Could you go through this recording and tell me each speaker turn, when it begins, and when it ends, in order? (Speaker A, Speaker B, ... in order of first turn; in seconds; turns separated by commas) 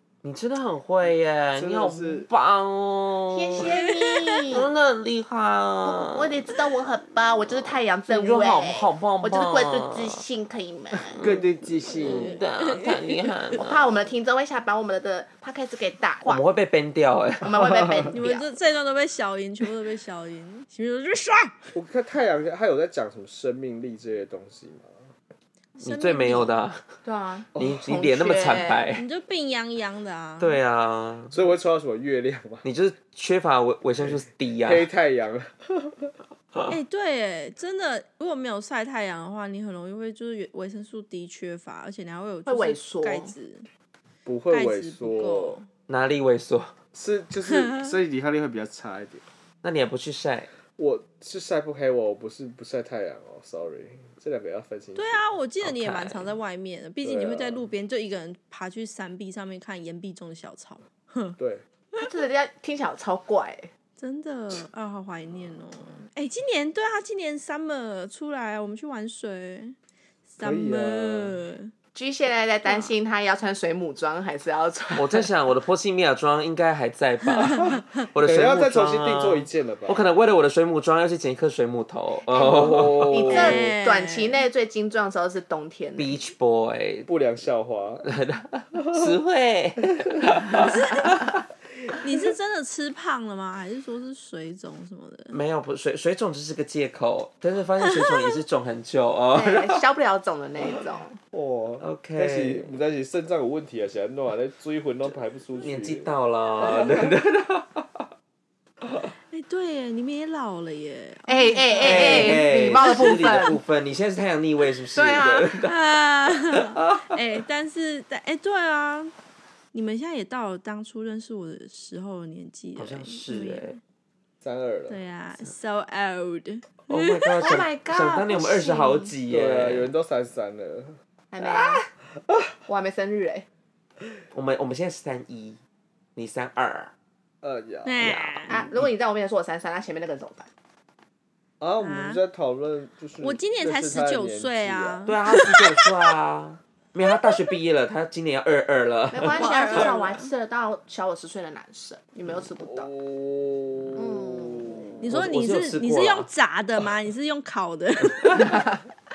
Speaker A: 0.2-3.7, Speaker B: 1.6-2.3, Speaker C: 3.3-4.7, Speaker D: 3.7-4.4, Speaker A: 4.5-6.3, Speaker C: 5.8-11.2, Speaker A: 8.1-10.2, Speaker A: 11.1-11.4, Speaker B: 11.1-12.4, Speaker A: 11.9-13.8, Speaker D: 12.0-13.2, Speaker C: 13.5-16.4, Speaker A: 16.2-17.6, Speaker C: 17.4-18.4, Speaker D: 18.1-21.7, Speaker B: 21.7-24.9, Speaker D: 25.8-26.6, Speaker A: 25.8-26.9, Speaker C: 27.0-28.9, Speaker A: 27.6-29.0, Speaker D: 28.9-30.6, Speaker A: 30.4-31.4, Speaker B: 31.3-32.6, Speaker A: 32.6-34.9, Speaker B: 34.0-36.1, Speaker D: 36.7-43.6, Speaker C: 42.5-43.3, Speaker B: 44.2-45.6, Speaker D: 44.5-45.7, Speaker A: 45.9-46.7, Speaker B: 46.9-49.2, Speaker D: 47.6-47.9, Speaker A: 49.6-50.5, Speaker B: 50.8-55.2, Speaker D: 55.0-61.4, Speaker A: 55.6-56.3, Speaker B: 57.0-57.6, Speaker B: 61.4-61.6, Speaker C: 62.0-63.7, Speaker D: 64.0-69.7, Speaker D: 70.3-71.7, Speaker B: 70.4-71.4, Speaker C: 71.9-75.3, Speaker A: 75.0-83.6, Speaker D: 77.4-77.8, Speaker B: 78.2-80.0, Speaker C: 82.3-86.1, Speaker B: 82.4-83.6, Speaker D: 83.3-84.4, Speaker A: 86.0-87.1, Speaker B: 87.0-88.0, Speaker A: 88.0-91.4, Speaker D: 90.6-91.2, Speaker D: 92.0-95.3, Speaker A: 95.3-99.8, Speaker C: 99.3-101.2, Speaker B: 101.3-106.1, Speaker A: 101.8-102.7, Speaker A: 105.6-108.0, Speaker B: 106.6-107.0, Speaker D: 109.3-113.0, Speaker C: 111.3-113.6, Speaker A: 111.8-117.1, Speaker C: 114.9-115.5, Speaker D: 115.6-119.1, Speaker D: 119.7-123.8, Speaker A: 122.8-123.8, Speaker B: 124.4-125.0, Speaker D: 124.9-127.4, Speaker A: 126.9-129.9, Speaker C: 127.4-129.1, Speaker B: 129.3-130.9, Speaker C: 131.3-131.8, Speaker A: 131.4-131.8, Speaker C: 132.7-133.4, Speaker A: 134.3-135.6, Speaker A: 136.2-136.9, Speaker B: 137.4-138.6, Speaker D: 137.8-138.5, Speaker C: 138.5-140.5, Speaker B: 141.6-145.0, Speaker D: 141.8-142.2, Speaker D: 143.2-145.9, Speaker A: 145.1-149.9, Speaker C: 149.1-152.9, Speaker D: 149.3-150.3, Speaker B: 152.6-155.0, Speaker C: 153.9-154.9, Speaker D: 155.0-158.5, Speaker A: 155.1-156.3, Speaker A: 158.2-158.5, Speaker C: 158.3-158.8